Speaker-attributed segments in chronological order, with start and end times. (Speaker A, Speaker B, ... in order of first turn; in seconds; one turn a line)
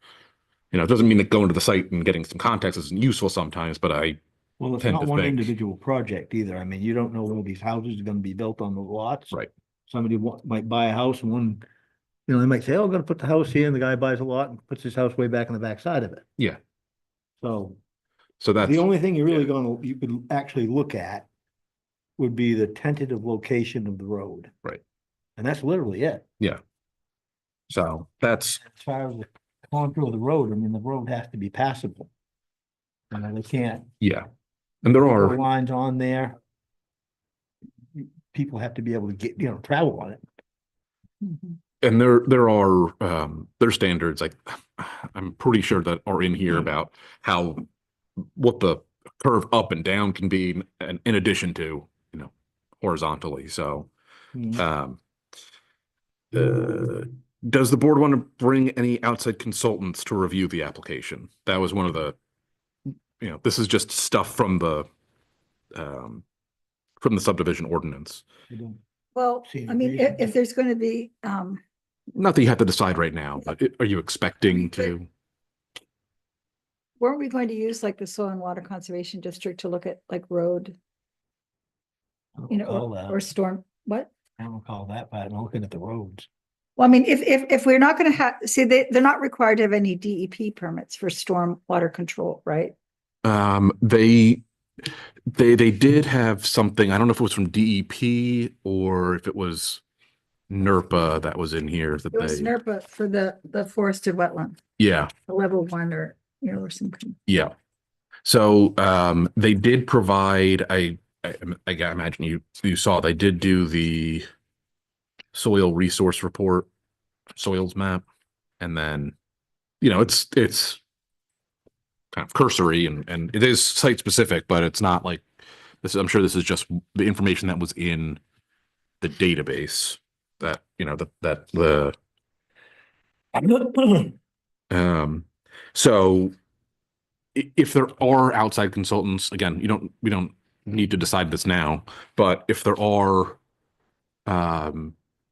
Speaker A: 0.7-4.2
Speaker B: 4.6-9.3
Speaker A: 4.8-5.5
Speaker B: 9.9-11.6
Speaker B: 12.3-16.2
Speaker B: 17.4-17.8
Speaker A: 18.4-19.5
Speaker B: 18.6-21.3
Speaker B: 22.2-24.5
Speaker B: 25.4-26.2
Speaker A: 27.7-28.6
Speaker B: 28.6-32.1
Speaker B: 33.1-33.9
Speaker A: 34.0-34.3
Speaker A: 34.8-35.4
Speaker B: 35.0-36.4
Speaker B: 37.9-40.2
Speaker C: 41.2-41.6
Speaker A: 41.8-47.6
Speaker A: 48.4-53.9
Speaker B: 54.4-54.6
Speaker A: 54.5-55.0
Speaker A: 56.3-62.1
Speaker A: 63.2-64.9
Speaker A: 65.8-66.2
Speaker A: 67.0-68.2
Speaker B: 68.5-68.8
Speaker C: 69.2-71.6
Speaker B: 69.5-70.3
Speaker A: 72.2-75.1
Speaker C: 77.0-80.8
Speaker B: 82.4-83.2
Speaker C: 82.5-84.1
Speaker B: 84.4-86.3
Speaker C: 86.8-92.7
Speaker A: 93.2-94.4
Speaker A: 95.3-99.8
Speaker A: 100.5-102.5
Speaker C: 102.1-104.6
Speaker A: 104.8-105.1
Speaker C: 105.3-107.2
Speaker A: 108.2-114.2
Speaker A: 115.3-116.7
Speaker A: 117.4-118.0
Speaker A: 118.6-119.2
Speaker A: 119.8-120.8
Speaker A: 122.1-125.2
Speaker A: 125.8-128.2
Speaker A: 129.0-131.9
Speaker B: 133.3-134.2
Speaker A: 134.7-136.3
Speaker A: 137.3-143.4
Speaker A: 144.3-144.9